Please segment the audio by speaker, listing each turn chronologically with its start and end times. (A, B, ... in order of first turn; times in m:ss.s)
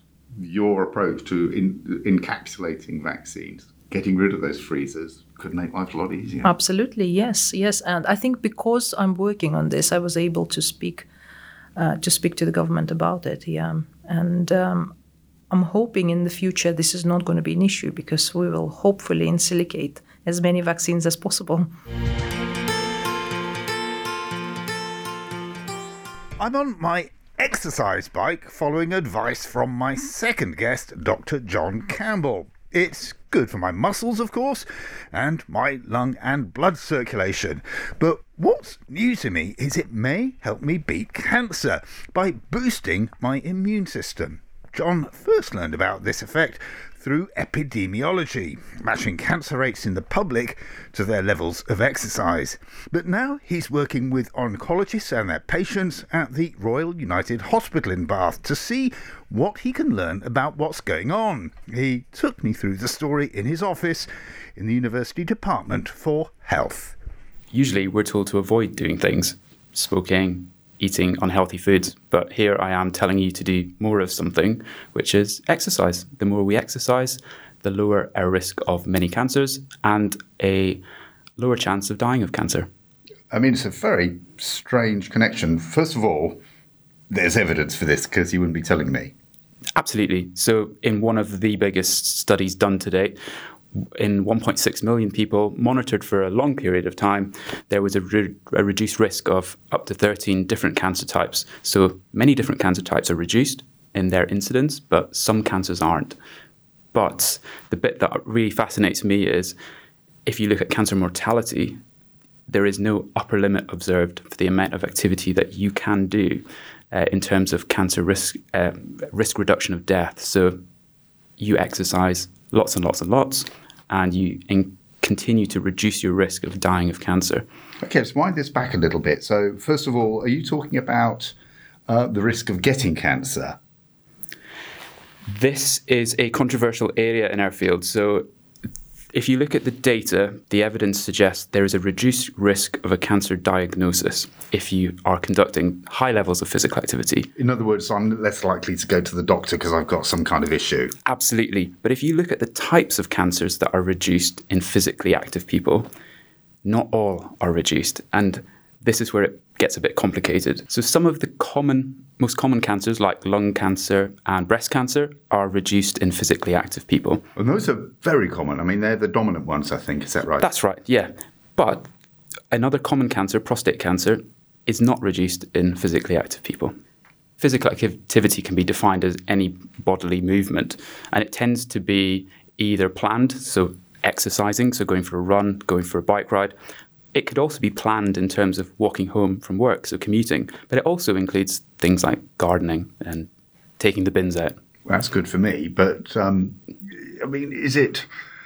0:00.4-0:06.5 A
0:06.4-0:11.1 B
0:11.8-0:14.9 B
0:15.5-0:21.7 B
0:26.4-1:07.0 A
1:07.5-1:20.8 C
1:21.4-1:22.7 C
1:23.3-1:26.4 A
1:27.1-1:29.1 A
1:29.8-1:33.2 C
1:33.8-1:46.2 C
1:46.9-1:49.6 C
1:50.3-1:51.8 C
1:52.5-2:00.6 C
2:01.4-2:07.4 C
2:07.8-2:11.3 A
2:11.9-2:13.6 A
2:15.3-2:18.3 C
2:19.1-2:27.3 C
2:27.4-2:30.9 A
2:31.1-2:35.9 C
2:36.6-2:47.2 C
2:47.4-2:50.4 A
2:50.4-2:51.9 C
2:52.5-2:56.7 C
2:57.4-3:06.5 C
3:07.1-3:14.6 C
3:14.9-3:18.1 A